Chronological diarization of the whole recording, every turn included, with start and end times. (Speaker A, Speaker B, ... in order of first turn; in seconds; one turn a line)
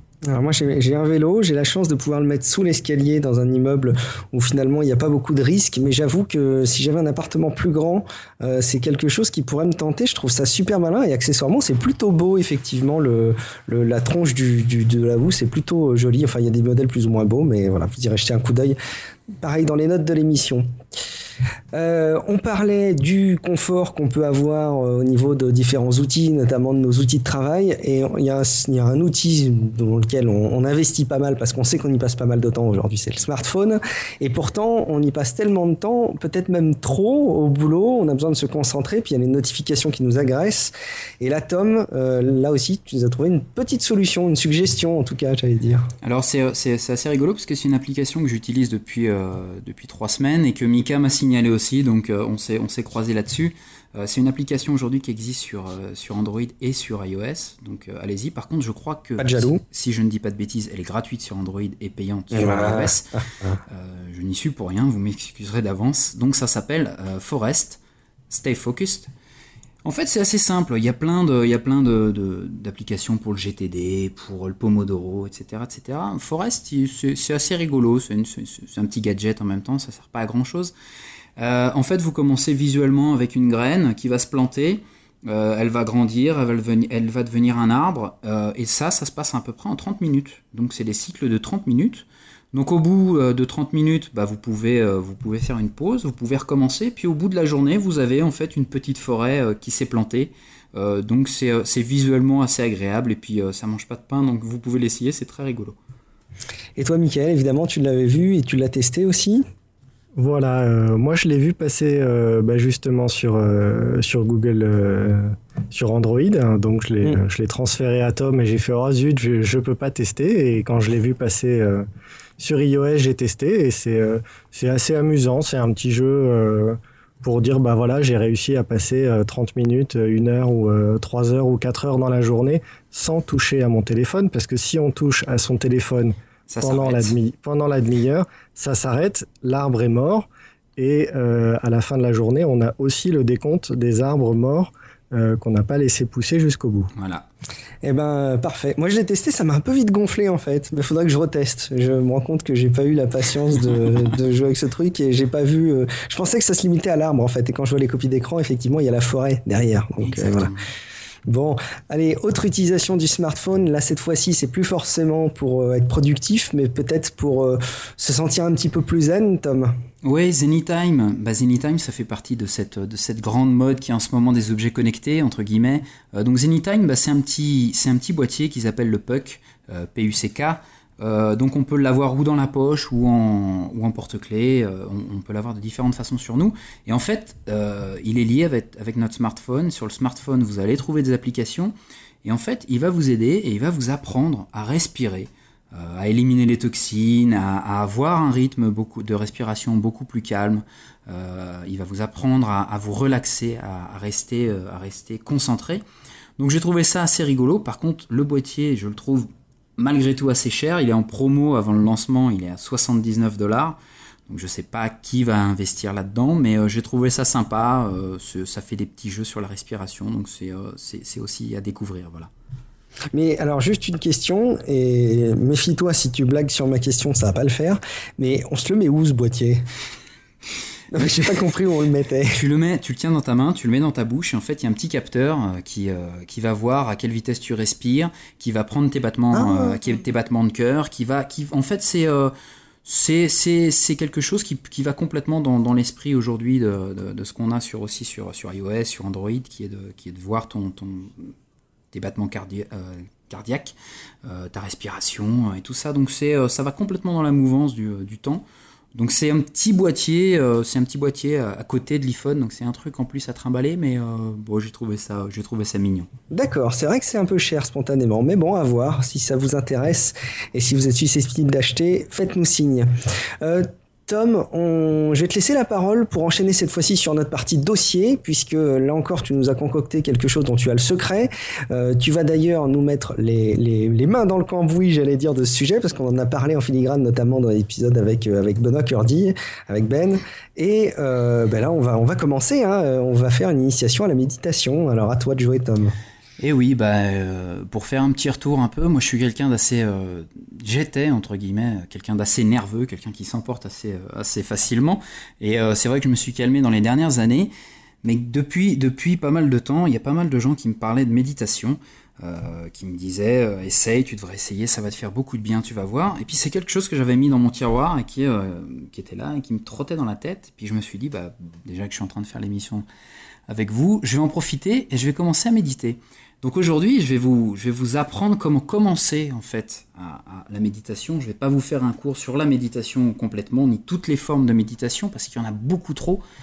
Speaker A: 0.2-18.8
Speaker A: 19.4-20.7
Speaker A: 21.7-45.9
Speaker B: 46.0-63.1
Speaker A: 59.2-59.6
Speaker A: 62.3-63.6
Speaker B: 63.7-69.1
Speaker B: 69.8-80.7
Speaker B: 81.4-105.8
Speaker A: 106.8-109.4
Speaker C: 110.2-121.9
Speaker C: 122.4-146.9
Speaker B: 136.5-137.2
Speaker B: 146.9-147.3
Speaker A: 147.8-160.5
Speaker B: 160.0-160.7
Speaker A: 161.3-169.7
Speaker B: 170.0-205.8
Speaker B: 206.4-213.8
Speaker B: 214.3-222.3
Speaker A: 223.1-229.6
Speaker A: 230.9-232.4
Speaker B: 232.3-242.3
Speaker A: 239.3-239.8
Speaker B: 242.8-251.3
Speaker B: 251.9-266.1
Speaker A: 266.3-272.9
Speaker A: 273.4-296.0
Speaker B: 296.4-307.5
Speaker B: 308.0-322.9
Speaker B: 323.5-336.2